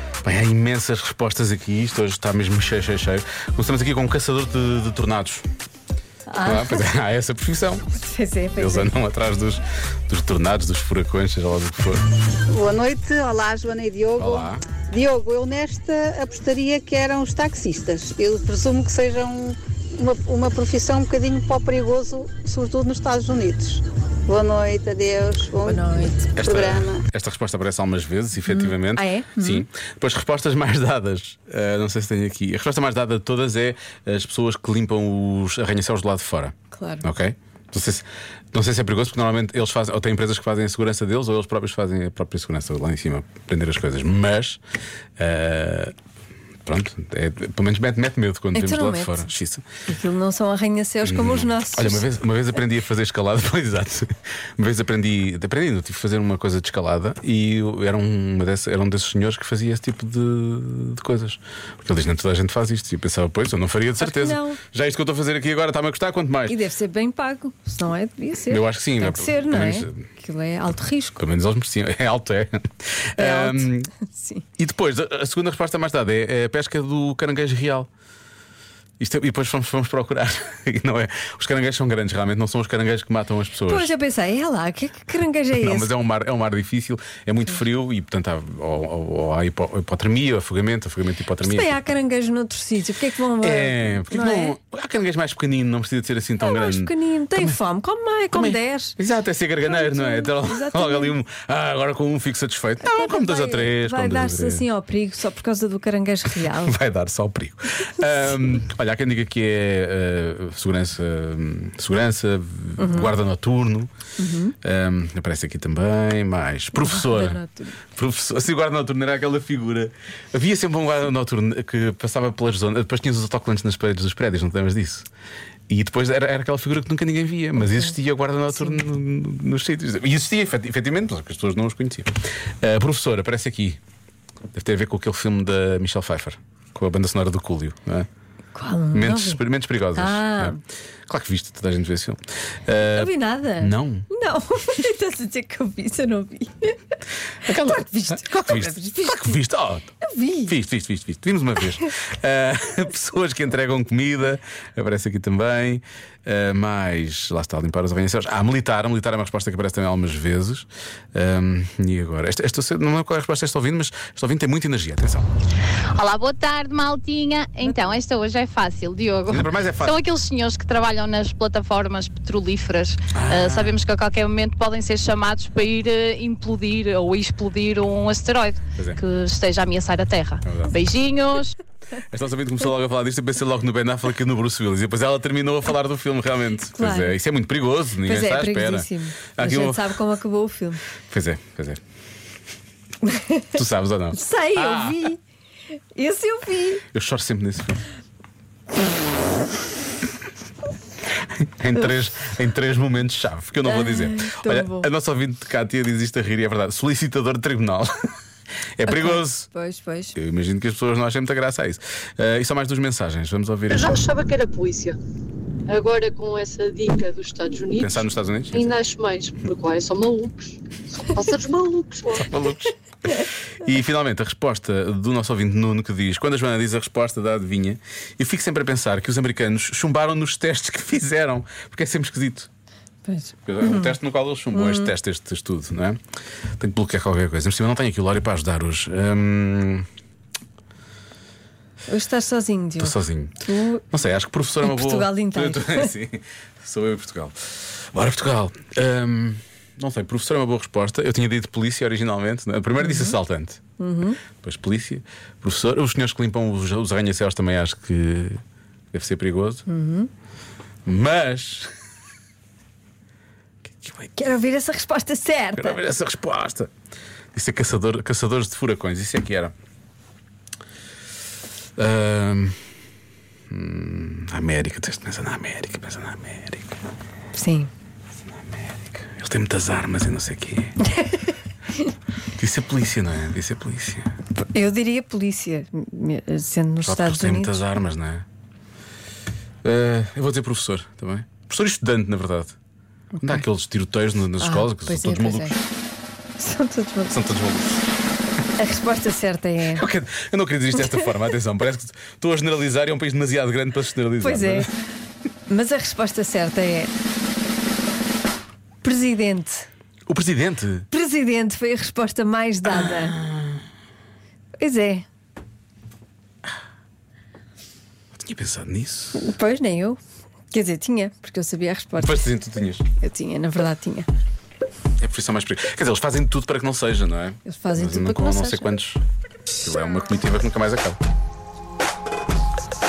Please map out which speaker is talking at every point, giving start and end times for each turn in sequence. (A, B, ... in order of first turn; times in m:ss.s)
0:00.2-0:05.4 A
0:06.3-0:06.8 B
0:06.4-0:07.8 A
0:07.9-0:08.9 B
0:08.6-0:12.1 A
0:12.5-0:27.0 C
0:14.2-0:14.6 A
0:25.6-0:26.3 B
0:26.3-0:44.6 A
0:28.4-0:29.6 B
0:36.7-0:37.0 B
0:45.2-0:45.9 A
0:46.6-0:49.6 A
0:48.5-0:49.3 B
0:49.9-0:52.0 B
0:51.0-1:06.6 A
1:04.0-1:04.6 B
1:06.5-1:11.2 B
1:08.5-1:10.1 A
1:11.2-1:13.9 A
1:13.2-1:14.4 B
1:14.6-1:17.9 A
1:19.0-1:23.9 A
1:23.7-1:25.9 B
1:25.5-1:31.8 A
1:31.4-1:34.6 B
1:33.4-1:37.6 A
1:36.4-1:39.0 B
1:38.3-1:44.6 A
1:39.7-1:41.2 B
1:42.8-1:46.8 B
1:46.4-1:53.9 A
1:52.8-1:53.1 B
1:54.2-1:54.6 B
1:54.6-1:57.4 A
1:56.8-1:57.8 B
1:57.9-2:05.1 A
2:05.7-2:13.8 A
2:07.6-2:07.9 B
2:14.5-2:18.1 A
2:18.5-2:19.4 B
2:18.9-2:24.1 A
2:19.9-2:20.6 B
2:22.8-2:26.8 B
2:27.4-2:29.4 B
2:27.4-2:29.9 A
2:30.0-2:30.5 B
2:30.4-2:45.3 A
2:45.9-3:01.6 D
2:47.6-2:47.9 B
2:49.3-2:50.0 A
2:53.1-2:53.8 A
3:00.4-3:00.8 A
3:02.0-3:10.0 A
3:06.6-3:07.2 B
3:08.0-3:10.8 B
3:11.1-3:11.8 A
3:13.1-3:13.5 B
3:13.5-3:15.0 A
3:14.1-3:15.2 B
3:15.9-3:16.8 B
3:16.9-3:17.8 A
3:21.4-3:27.9 A
3:23.6-3:24.9 B
3:28.8-3:29.5 A
3:28.8-3:30.2 B
3:30.1-3:34.0 A
3:33.7-3:35.0 E
3:35.7-3:42.3 E
3:37.8-3:38.7 A
3:42.1-3:52.5 A
3:53.0-3:54.0 B
3:53.4-3:56.0 A
3:54.5-3:54.9 B
3:56.6-3:59.8 A
4:01.9-4:03.9 B
4:02.8-4:03.3 A
4:03.9-4:13.6 A
4:04.6-4:05.9 B
4:12.8-4:13.2 B
4:13.8-4:14.2 B
4:14.4-4:18.4 A
4:18.9-4:19.6 A
4:19.7-4:20.1 B
4:20.8-4:21.7 A
4:23.8-4:24.1 A
4:24.1-4:25.8 B
4:25.6-4:26.7 A
4:27.3-4:29.5 A
4:31.8-4:32.5 A
4:33.5-4:36.7 A
4:37.3-4:37.7 B
4:38.2-4:40.8 A
4:42.4-4:44.1 A
4:44.4-4:47.7 B
4:46.8-4:48.2 A
4:49.6-4:52.6 A
4:53.1-4:53.4 B
4:53.2-4:55.6 A
4:54.4-4:55.5 B
4:56.4-4:57.1 B
4:57.1-4:57.8 A
4:58.6-4:59.8 B
4:59.7-5:04.7 A
5:00.8-5:01.1 B
5:04.2-5:04.7 B
5:05.5-5:06.9 B
5:08.8-5:09.7 B
5:10.1-5:10.9 A
5:10.9-5:13.2 B
5:12.6-5:13.6 A
5:14.6-5:15.0 B
5:18.1-5:19.3 A
5:19.1-5:20.0 B
5:20.5-5:22.2 B
5:22.0-5:22.8 A
5:23.0-5:24.1 B
5:25.0-5:29.0 A
5:27.4-5:28.7 B
5:29.6-5:31.0 A